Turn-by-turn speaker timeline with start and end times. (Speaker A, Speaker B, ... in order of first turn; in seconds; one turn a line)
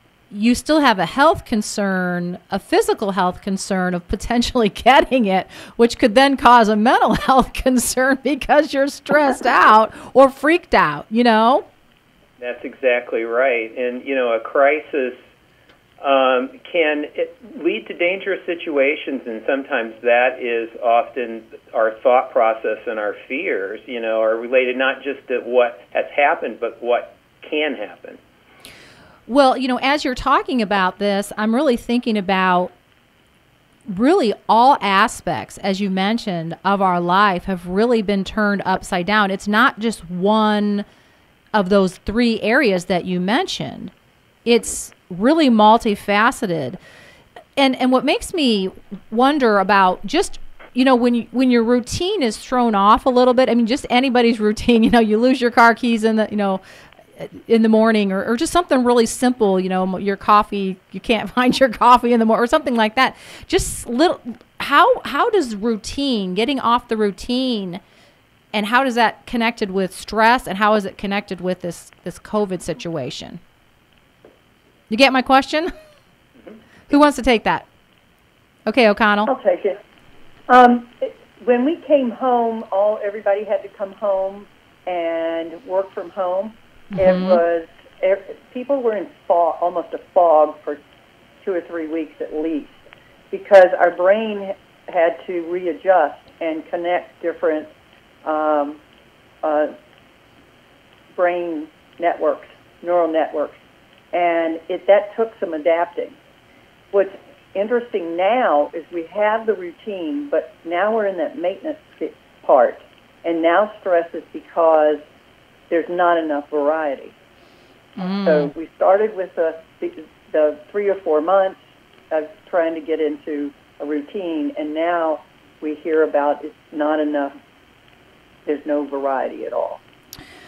Speaker A: 0.3-11.7
Speaker B: 12.4-15.2
Speaker B: 16.0-28.2
Speaker A: 29.3-32.7
Speaker A: 33.9-40.8
Speaker A: 41.5-43.9
Speaker A: 44.5-46.8
Speaker A: 47.5-56.6
Speaker A: 57.2-67.8
Speaker A: 68.5-73.4
Speaker A: 74.9-75.7
Speaker A: 76.9-77.6
Speaker A: 78.7-79.3
Speaker C: 79.3-79.8
Speaker C: 80.5-90.8
Speaker A: 87.0-87.4
Speaker C: 91.4-92.8
Speaker C: 93.3-97.7
Speaker C: 98.2-98.8
Speaker C: 99.4-99.7
Speaker C: 101.1-103.6
Speaker C: 104.1-106.2
Speaker C: 106.9-115.0
Speaker C: 115.7-117.1
Speaker A: 118.0-118.5
Speaker C: 118.2-121.6
Speaker C: 122.1-127.3
Speaker C: 128.4-129.8